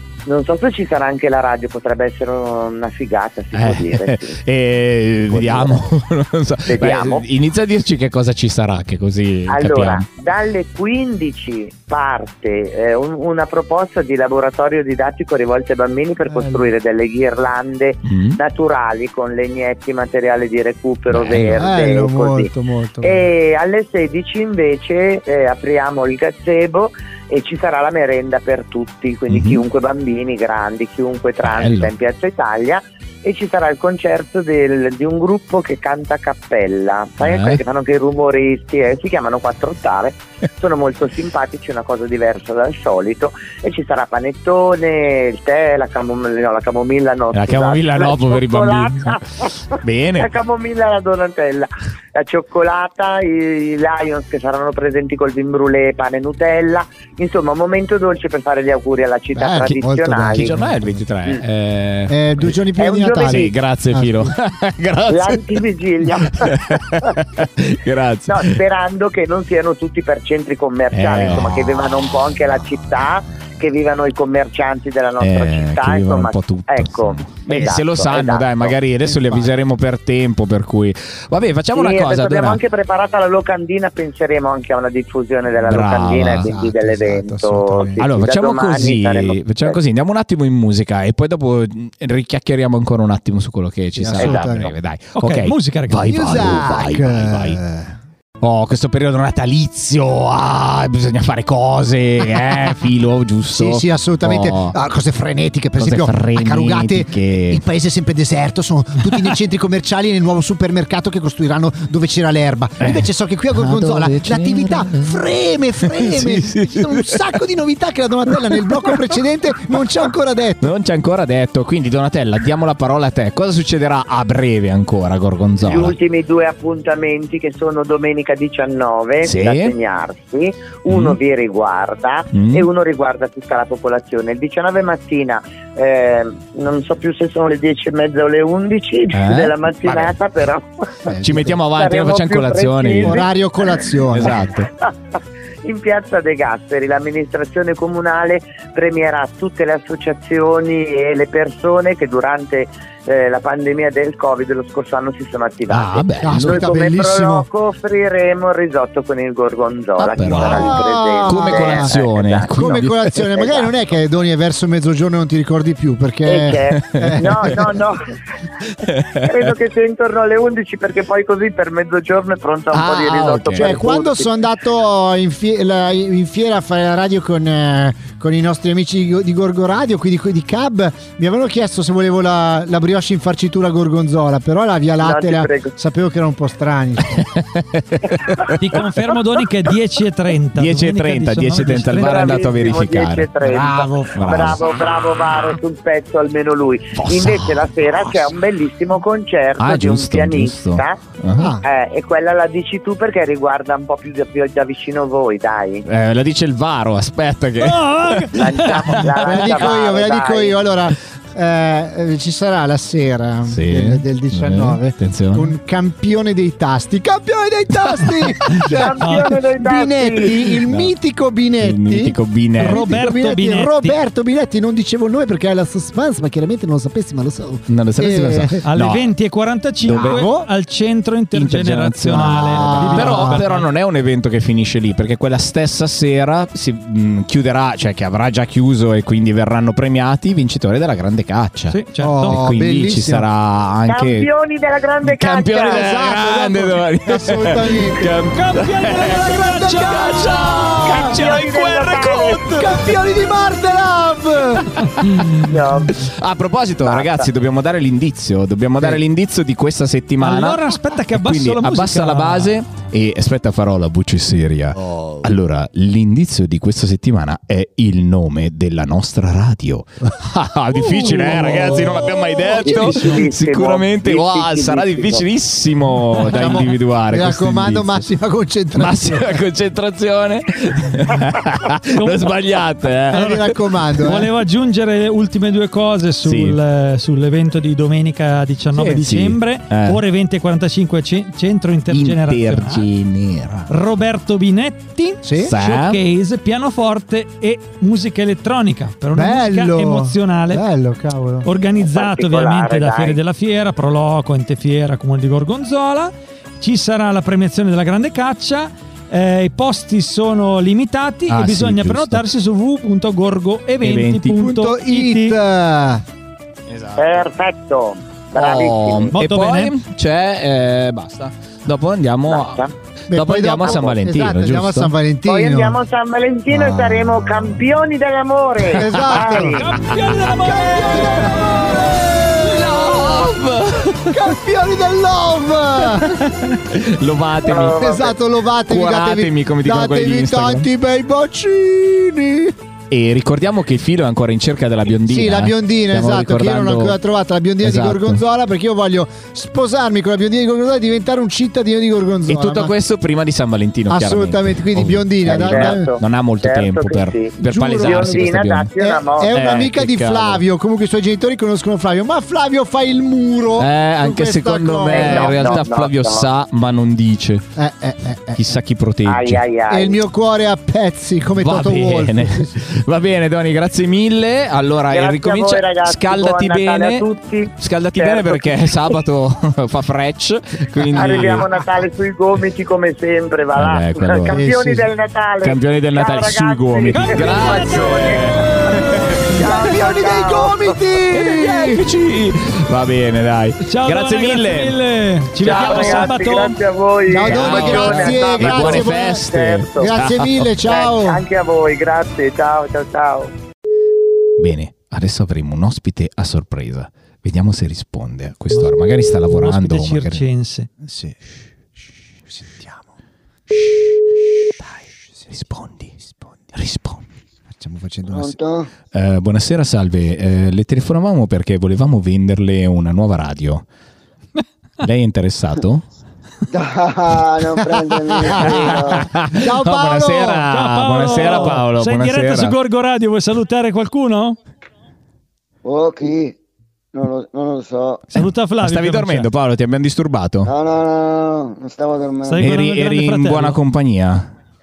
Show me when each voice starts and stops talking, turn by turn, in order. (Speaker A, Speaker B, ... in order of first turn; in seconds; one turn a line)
Speaker A: 0.3-4.4
Speaker B: 3.5-10.1
Speaker A: 5.3-5.8
Speaker A: 6.7-7.3
Speaker A: 9.5-22.5
Speaker C: 16.3-16.6
Speaker B: 18.1-18.4
Speaker B: 21.1-21.6
Speaker C: 21.6-23.2
Speaker A: 23.0-49.5
Speaker B: 29.3-29.6
Speaker B: 31.4-31.9
Speaker B: 37.2-37.6
Speaker B: 47.3-49.2
Speaker B: 49.8-50.3
Speaker A: 50.2-60.6
Speaker C: 59.4-61.0
Speaker B: 60.3-62.5
Speaker C: 62.1-64.3
Speaker A: 62.8-63.5
Speaker B: 63.2-65.6
Speaker A: 65.1-67.0
Speaker B: 66.3-68.6
Speaker A: 68.3-78.8
Speaker B: 70.9-72.0
Speaker B: 75.2-82.6
Speaker C: 79.1-79.5
Speaker A: 81.7-89.8
Speaker B: 85.6-86.5
Speaker C: 86.4-88.0
Speaker B: 88.0-97.6
Speaker C: 94.0-94.7
Speaker A: 94.2-94.6
Speaker D: 95.1-96.4
Speaker C: 96.1-98.0
Speaker B: 98.4-104.8
Speaker C: 103.5-120.7
Speaker B: 105.8-107.6
Speaker B: 112.8-115.2
Speaker B: 115.8-117.3
Speaker B: 118.3-119.0
Speaker B: 120.6-126.0
Speaker A: 125.6-140.9
Speaker B: 129.2-129.7
Speaker B: 130.9-131.2
Speaker B: 132.3-132.7
Speaker B: 139.1-140.2
Speaker C: 141.1-141.6
Speaker B: 141.2-143.2
Speaker A: 141.7-143.3
Speaker C: 143.0-144.5
Speaker B: 144.1-144.7
Speaker A: 145.7-162.8
Speaker B: 155.7-156.7
Speaker C: 156.2-157.5
Speaker B: 160.0-163.2
Speaker C: 160.2-162.0
Speaker C: 162.5-167.6
Speaker A: 163.3-163.7
Speaker A: 166.3-168.1
Speaker B: 166.8-167.5
Speaker B: 168.9-169.5
Speaker A: 169.2-174.3
Speaker B: 172.7-173.8
Speaker C: 173.6-187.3
Speaker A: 185.0-185.7
Speaker B: 187.2-188.6
Speaker D: 188.6-192.5
Speaker B: 190.6-193.3
Speaker A: 191.9-201.0
Speaker C: 193.4-194.5
Speaker B: 194.2-194.6
Speaker B: 197.0-198.3
Speaker B: 199.6-201.5
Speaker C: 201.4-201.6
Speaker A: 201.6-205.8
Speaker B: 205.9-208.3
Speaker D: 207.6-209.0
Speaker A: 208.3-210.6
Speaker B: 208.9-209.6
Speaker C: 209.2-228.6
Speaker B: 213.5-215.5
Speaker A: 218.7-220.5
Speaker D: 219.0-219.3
Speaker B: 220.7-220.9
Speaker B: 221.6-223.0
Speaker D: 222.6-224.0
Speaker B: 227.7-229.1
Speaker D: 228.7-233.7
Speaker B: 229.8-230.3
Speaker C: 229.9-230.5
Speaker B: 231.3-244.3
Speaker C: 232.1-233.4
Speaker D: 241.7-242.4
Speaker C: 242.0-243.3
Speaker A: 243.9-245.9
Speaker B: 245.0-253.0
Speaker C: 245.7-248.1
Speaker D: 248.3-250.8
Speaker C: 249.1-251.2
Speaker A: 250.9-252.4
Speaker C: 252.5-254.7
Speaker B: 255.0-278.0
Speaker A: 255.4-256.0
Speaker A: 256.8-257.3
Speaker D: 260.2-262.5
Speaker C: 264.9-265.2
Speaker D: 271.0-271.7
Speaker C: 271.2-272.0
Speaker A: 272.6-275.3
Speaker C: 272.7-273.0
Speaker C: 276.2-279.4
Speaker B: 278.8-283.5
Speaker D: 282.0-282.3
Speaker C: 283.1-284.3
Speaker D: 283.1-283.4
Speaker D: 284.0-292.9
Speaker B: 286.2-286.6
Speaker B: 288.7-290.0
Speaker B: 291.9-293.7
Speaker D: 293.7-300.6
Speaker C: 295.2-295.5
Speaker B: 295.4-296.0
Speaker C: 299.1-301.5
Speaker D: 301.4-315.4
Speaker A: 301.9-303.2
Speaker B: 311.3-312.2
Speaker B: 313.8-314.3
Speaker C: 314.3-316.0
Speaker B: 316.7-317.3
Speaker A: 317.0-319.1
Speaker B: 318.4-324.9
Speaker D: 319.1-319.7
Speaker A: 322.3-322.7
Speaker C: 323.1-325.8
Speaker A: 325.3-329.7
Speaker C: 326.5-327.6
Speaker C: 328.7-329.6
Speaker B: 328.7-329.1
Speaker D: 329.3-331.9
Speaker C: 330.4-333.4
Speaker B: 332.4-334.3
Speaker C: 334.1-336.2
Speaker B: 336.0-337.9
Speaker A: 337.4-338.1
Speaker C: 337.8-342.6
Speaker B: 338.7-340.7
Speaker B: 342.9-347.0
Speaker C: 345.1-352.7
Speaker B: 347.6-348.2
Speaker B: 352.3-358.7
Speaker C: 353.9-355.9
Speaker A: 355.3-359.6
Speaker C: 357.4-365.6
Speaker B: 359.3-360.4
Speaker B: 363.6-367.5
Speaker A: 364.9-366.3
Speaker C: 367.6-368.4
Speaker B: 368.4-369.4
Speaker A: 369.1-370.0
Speaker C: 369.7-372.6
Speaker B: 371.4-377.1
Speaker A: 374.9-378.7
Speaker B: 377.6-381.5
Speaker A: 380.9-388.4
Speaker B: 383.6-384.4
Speaker C: 384.3-384.9
Speaker B: 385.4-389.5
Speaker D: 386.9-388.8
Speaker A: 389.3-390.8
Speaker C: 389.4-391.9
Speaker B: 391.1-394.8
Speaker D: 393.6-396.6
Speaker A: 395.4-399.9
Speaker B: 395.4-396.1
Speaker C: 397.1-399.2
Speaker B: 397.2-400.5
Speaker C: 399.8-401.2
Speaker A: 400.6-403.3
Speaker B: 404.4-410.3
Speaker D: 409.3-410.7
Speaker C: 410.8-411.2
Speaker C: 412.3-412.9
Speaker B: 415.3-416.0
Speaker B: 416.5-417.0
Speaker C: 417.5-418.4
Speaker E: 418.1-418.7
Speaker B: 418.9-423.6
Speaker B: 424.8-425.9
Speaker E: 426.5-429.1
Speaker C: 428.3-428.6
Speaker B: 428.4-432.6
Speaker C: 429.3-430.5
Speaker D: 430.5-434.4
Speaker E: 435.6-436.4
Speaker E: 436.9-438.1
Speaker D: 438.1-439.3
Speaker B: 438.6-440.5
Speaker E: 440.4-442.5
Speaker D: 442.3-443.6
Speaker B: 442.4-444.3